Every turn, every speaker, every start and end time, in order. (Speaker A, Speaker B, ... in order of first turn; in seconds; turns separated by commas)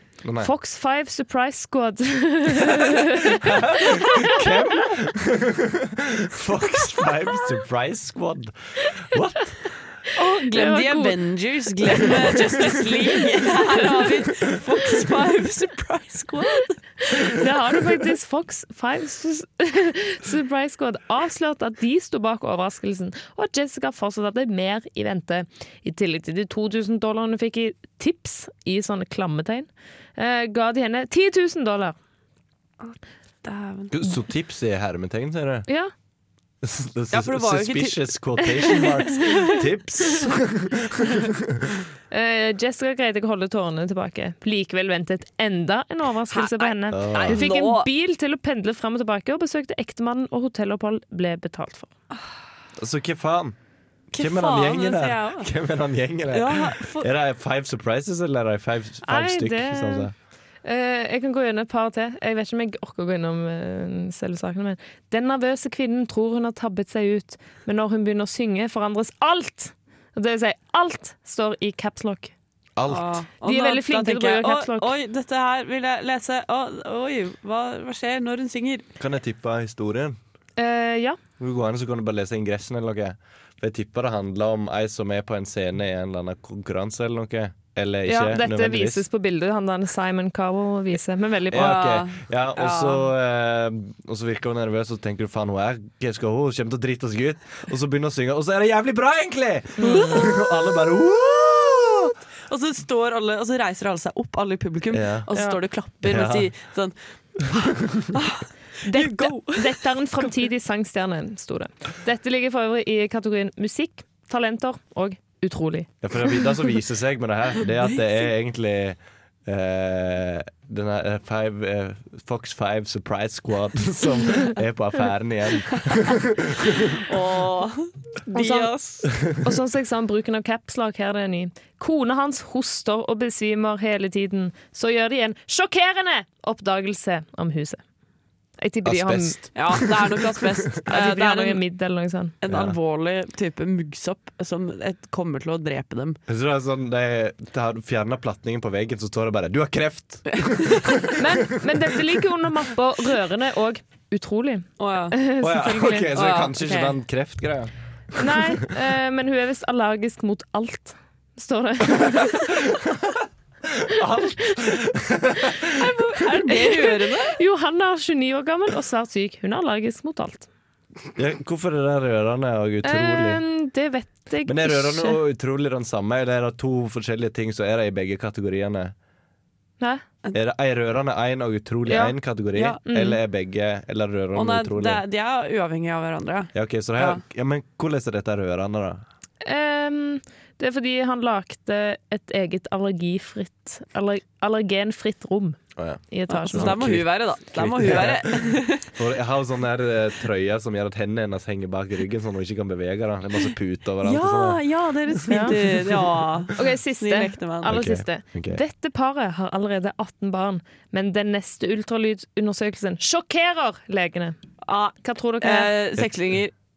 Speaker A: 0.2-0.5, Speaker B: 0.4-4.3, Speaker A: 3.4-9.6, Speaker C: 10.1-16.8, Speaker B: 10.5-11.2, Speaker B: 17.1-32.0, Speaker C: 32.8-34.0, Speaker A: 33.9-35.7, Speaker A: 36.6-41.6, Speaker C: 37.1-39.6, Speaker B: 42.1-51.9, Speaker C: 46.3-47.9, Speaker A: 46.9-47.4, Speaker A: 52.8-53.5, Speaker C: 54.1-55.5, Speaker A: 54.2-60.1, Speaker C: 56.3-57.1, Speaker B: 59.1-60.1, Speaker B: 60.6-72.3, Speaker A: 72.8-73.2, Speaker C: 72.9-78.9, Speaker B: 73.4-74.9, Speaker A: 79.0-80.2, Speaker B: 80.6-81.2, Speaker A: 81.4-89.0, Speaker B: 88.1-91.8, Speaker A: 91.5-102.2, Speaker C: 91.5-93.1, Speaker B: 99.8-100.2, Speaker C: 99.8-100.5, Speaker C: 102.5-110.4, Speaker A: 104.9-105.3, Speaker A: 106.0-106.5, Speaker B: 108.8-115.9, Speaker A: 116.0-127.0, Speaker C: 127.0-129.1, Speaker B: 128.3-137.8, Speaker B: 138.6-139.4, Speaker A: 138.8-140.6, Speaker C: 139.6-141.6, Speaker B: 140.9-142.3, Speaker C: 142.4-146.2, Speaker A: 142.5-142.8, Speaker A: 146.3-151.8, Speaker C: 150.3-151.0, Speaker B: 151.2-156.1, Speaker C: 154.8-155.2, Speaker A: 155.4-158.6, Speaker C: 156.1-157.0, Speaker B: 158.2-162.6, Speaker A: 162.1-163.1, Speaker A: 163.7-165.7, Speaker C: 165.8-167.4, Speaker B: 166.5-170.5, Speaker A: 171.2-173.4, Speaker B: 172.8-175.2, Speaker A: 174.5-178.9, Speaker A: 180.3-185.0, Speaker B: 181.9-182.2, Speaker C: 182.6-182.8, Speaker B: 182.9-183.2, Speaker C: 184.3-187.2, Speaker A: 186.5-189.0, Speaker B: 189.4-195.6, Speaker A: 195.8-204.6, Speaker B: 196.1-196.9, Speaker C: 196.3-198.9, Speaker C: 204.0-207.8, Speaker B: 205.3-205.6, Speaker A: 205.4-206.0, Speaker B: 206.6-214.4, Speaker A: 207.7-208.6, Speaker C: 214.6-216.5, Speaker B: 215.0-215.7, Speaker A: 216.0-216.4